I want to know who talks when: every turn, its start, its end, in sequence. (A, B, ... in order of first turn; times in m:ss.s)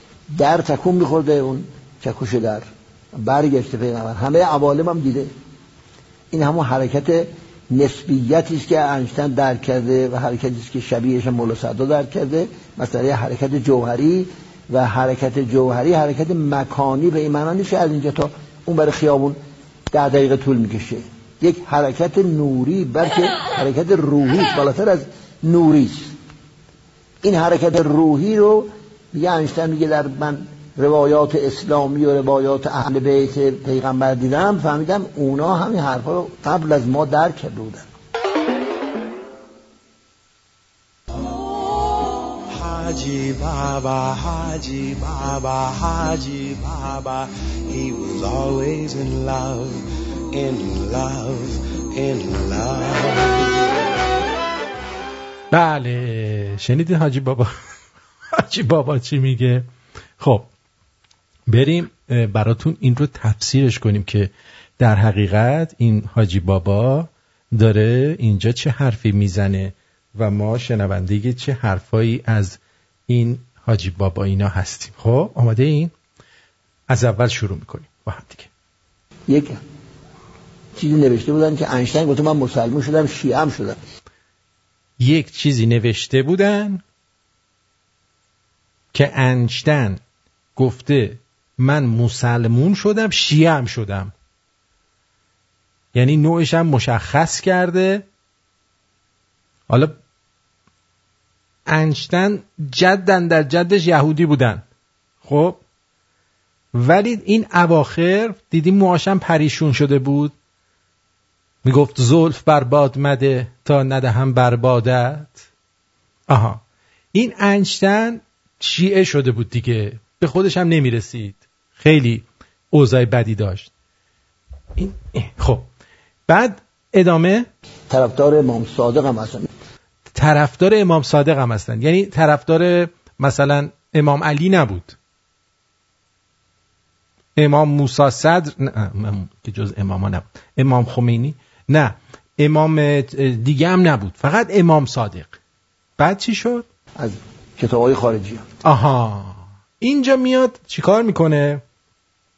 0:00.3-0:05.3 A
0:06.3-0:19.4 A
0:19.9-0:26.1 A
0:27.2-0:37.9 A
0:42.5-0:53.5 B
0:55.5-0:57.5 C
0:58.4-0:59.7 C
1:00.2-1:00.5 C
1:01.5-1:15.9 C
1:16.9-1:18.5 C
1:19.3-1:19.6 A
1:20.8-1:23.8 A
1:25.0-1:26.8 C
1:28.9-1:30.0 C
1:30.6-1:34.1 C
1:35.9-1:38.1 C
1:39.7-1:40.0 C
1:41.7-1:44.6 C
1:45.2-1:45.6 C
1:46.7-1:50.3 C
1:51.6-1:55.4 C
1:56.3-1:56.6 C
1:57.1-2:03.7 C
2:04.8-2:05.7 C
2:06.3-2:07.5 C
2:07.9-2:09.5 A
2:10.2-2:15.0 C
2:17.4-2:25.4 C
2:26.0-2:26.7 C
2:27.0-2:28.4 A
2:28.6-2:31.6 C